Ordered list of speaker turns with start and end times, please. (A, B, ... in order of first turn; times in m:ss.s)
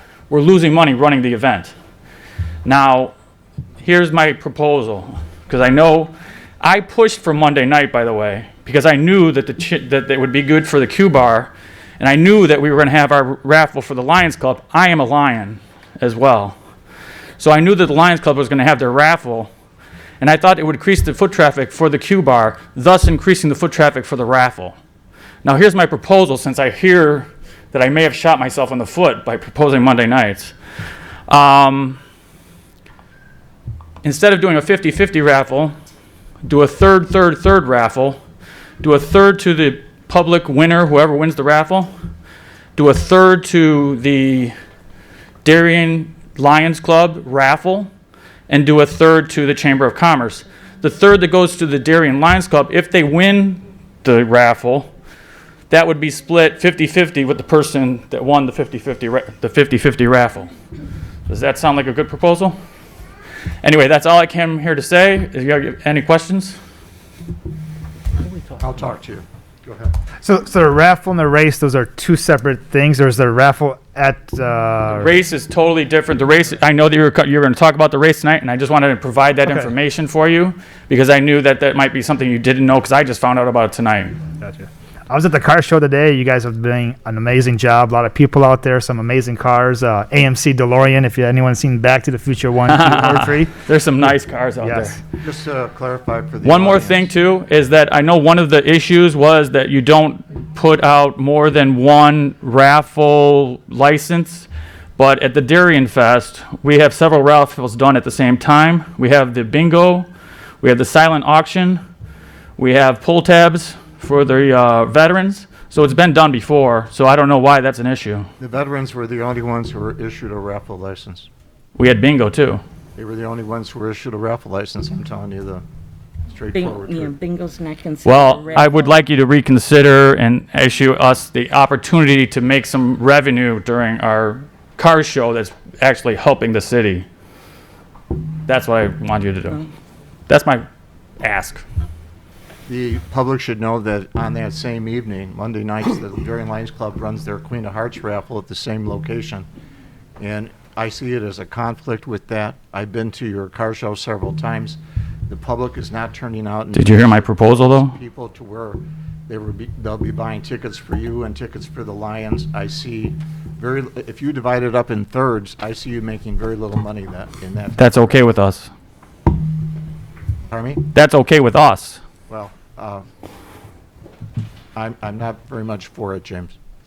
0:00.3-0:01.7 A
0:02.6-0:03.1 A
0:03.8-0:16.6 A
0:17.4-0:19.5 A
0:20.2-0:24.8 A
0:25.4-0:30.5 A
0:31.3-0:32.0 A
0:34.0-0:35.7 A
0:36.4-0:38.2 A
0:38.8-0:41.9 A
0:42.8-0:44.5 A
0:45.4-0:47.9 A
0:48.5-0:54.9 A
0:55.7-1:00.5 A
1:01.3-1:02.6 A
1:03.6-1:06.6 A
1:08.5-1:09.9 B
1:10.2-1:15.1 C
1:14.9-1:24.2 A
1:19.4-1:19.7 C
1:24.4-1:33.5 C
1:32.7-1:35.0 A
1:34.6-1:35.0 C
1:35.2-1:37.1 B
1:36.4-1:50.1 A
1:50.6-1:51.8 A
1:52.6-1:58.3 A
1:58.4-2:01.3 B
2:01.8-2:02.6 A
2:03.0-2:05.6 B
2:06.3-2:07.1 B
2:06.5-2:09.0 D
2:08.0-2:17.1 A
2:18.5-2:19.6 A
2:20.3-2:20.6 A
2:21.2-2:21.6 A
2:22.7-2:29.5 B
2:30.2-2:48.3 B
2:36.7-2:38.0 A
2:47.8-2:48.7 A
2:50.5-2:50.9 B
2:50.9-2:52.0 A
2:52.3-2:53.0 B
2:54.8-2:56.6 B